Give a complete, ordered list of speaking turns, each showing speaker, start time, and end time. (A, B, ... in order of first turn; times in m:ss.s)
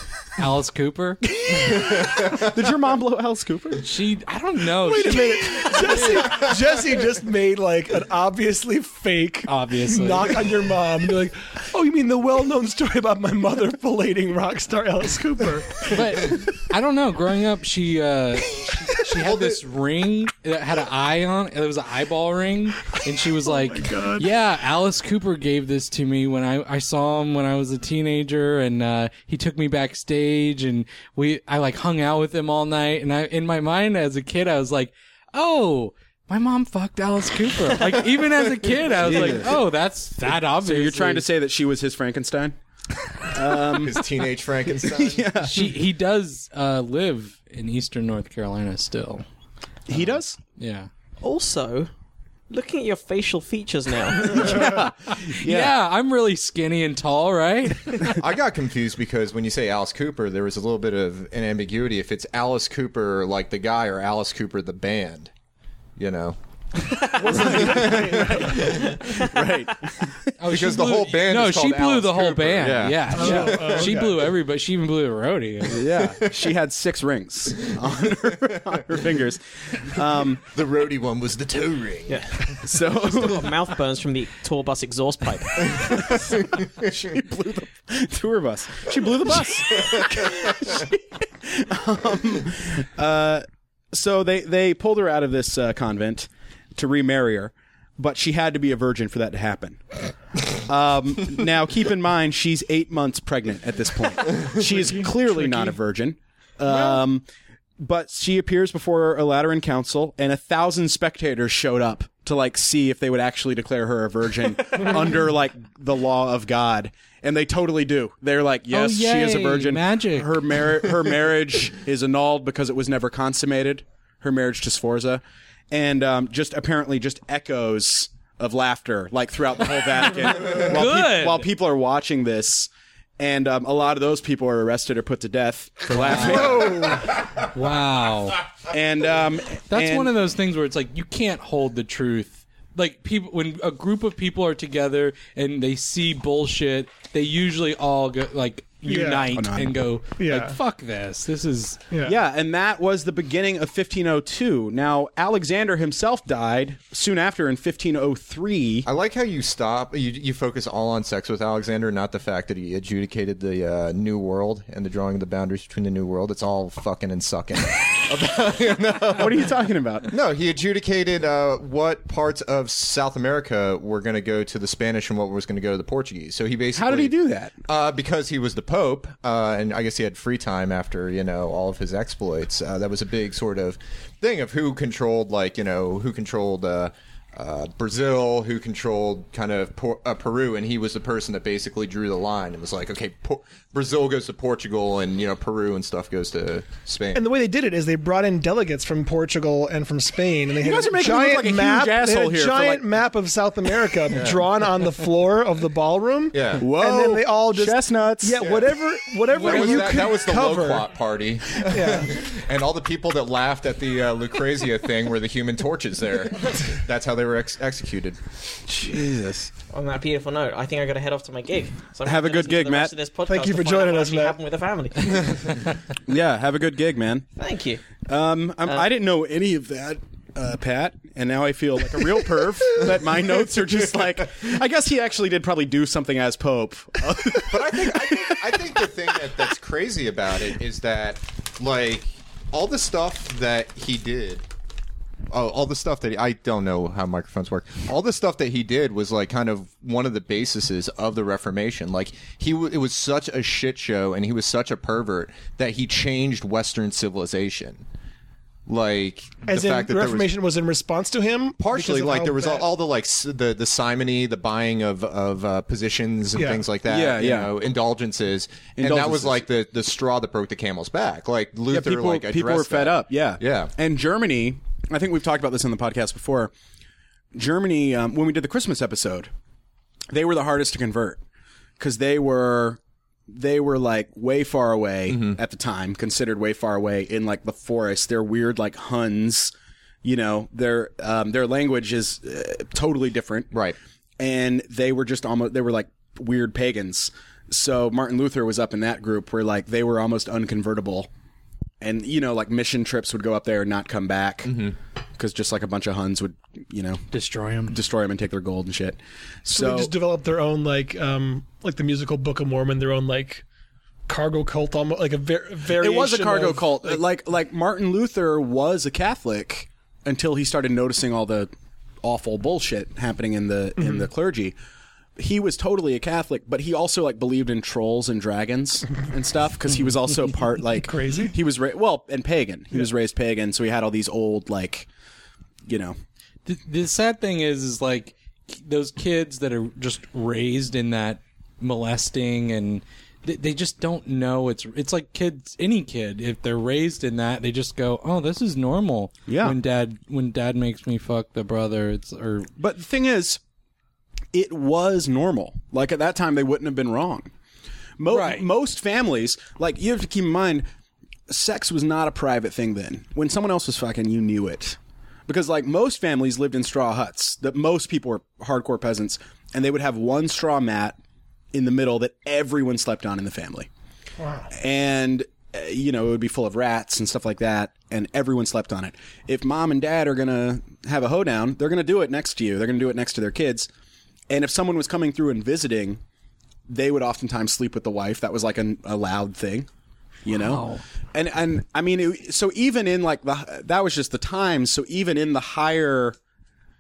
0:00.4-0:01.2 A
0:01.3-0:03.9 B
0:01.6-0:02.5 C
0:03.8-0:06.2 A
0:04.7-0:16.4 D
0:09.5-0:10.5 A
0:15.8-0:41.3 A
0:19.2-0:19.6 C
0:23.6-0:24.2 D
0:39.0-0:39.6 B
0:39.1-0:39.4 C
0:40.5-0:42.6 B
0:43.2-0:44.0 B
0:43.6-0:45.4 C
0:44.8-0:45.7 B
0:45.4-0:49.2 A
0:49.9-0:50.4 B
0:49.9-0:50.9 A
0:51.2-0:51.9 E
0:52.5-0:54.6 E
0:54.2-0:55.7 B
0:54.4-0:58.2 A
0:58.1-1:05.3 C
1:06.0-1:06.4 C
1:07.1-1:08.9 D
1:07.3-1:09.0 C
1:07.6-1:07.9 B
1:08.7-1:10.3 B
1:10.4-1:16.1 A
1:10.5-1:14.0 C
1:13.1-1:14.3 D
1:15.7-1:20.4 B
1:17.8-1:18.8 C
1:20.4-1:22.6 C
1:22.1-1:25.9 E
1:22.6-1:23.5 B
1:25.7-1:26.6 C
1:25.8-1:39.8 B
1:29.7-1:30.1 C
1:40.5-1:47.2 B
1:44.7-1:45.7 D
1:47.8-2:16.8 B
1:58.7-2:00.9 A
2:10.4-2:11.5 A
2:15.9-2:18.4 A
2:16.2-2:17.1 D
2:18.7-2:20.1 B
2:19.7-2:31.8 A
2:28.8-2:29.3 D
2:29.3-2:29.8 B
2:30.2-2:30.6 D
2:31.9-2:32.2 D
2:32.0-2:38.9 B
2:38.8-2:49.4 C
2:49.1-2:50.1 B
2:50.1-2:57.1 C
2:56.8-2:57.5 B
2:57.6-3:17.2 C
3:17.1-3:30.9 D
3:20.6-3:22.8 B
3:24.1-3:24.4 C
3:26.3-3:26.6 C
3:26.6-3:28.4 B
3:28.4-3:28.7 C
3:29.3-3:38.2 C
3:31.6-3:32.1 D
3:38.7-3:39.5 B
3:39.7-3:45.4 E
3:42.0-3:42.9 B
3:43.2-3:44.4 D
3:46.0-3:47.3 B
3:47.4-3:47.8 E
3:48.0-3:58.7 B
3:57.4-4:04.4 C
4:05.3-4:17.8 C
4:18.7-4:20.3 C
4:19.4-4:22.7 D
4:21.6-4:33.7 C
4:26.4-4:26.6 D
4:26.8-4:27.5 B
4:28.8-4:29.4 B
4:31.7-4:36.5 B
4:37.3-4:39.3 B
4:40.1-4:41.2 B
4:41.8-4:49.5 B
4:45.1-4:45.4 C
4:50.0-4:53.5 B
4:53.5-4:53.8 C
4:54.2-5:01.1 B
5:01.8-5:04.6 B
5:04.4-5:04.8 C
5:05.2-5:07.0 B
5:07.1-5:07.8 A
5:07.7-5:09.9 B
5:09.5-5:13.4 D
5:14.1-5:17.0 D
5:15.7-5:21.5 B
5:22.0-5:24.6 B
5:23.8-5:24.1 D
5:25.2-5:34.9 B
5:30.8-5:31.3 D
5:35.7-5:36.0 B
5:36.4-5:52.5 A
5:49.3-5:49.6 B
5:52.6-5:53.4 B
5:54.3-5:57.3 B
5:58.0-6:00.7 B
5:58.1-5:58.5 A
6:01.3-6:11.0 B
6:11.5-6:13.7 B
6:14.2-6:14.5 D
6:14.5-6:23.7 B
6:24.3-6:26.0 B
6:26.7-6:29.7 B
6:30.2-6:36.2 B
6:30.3-6:30.8 A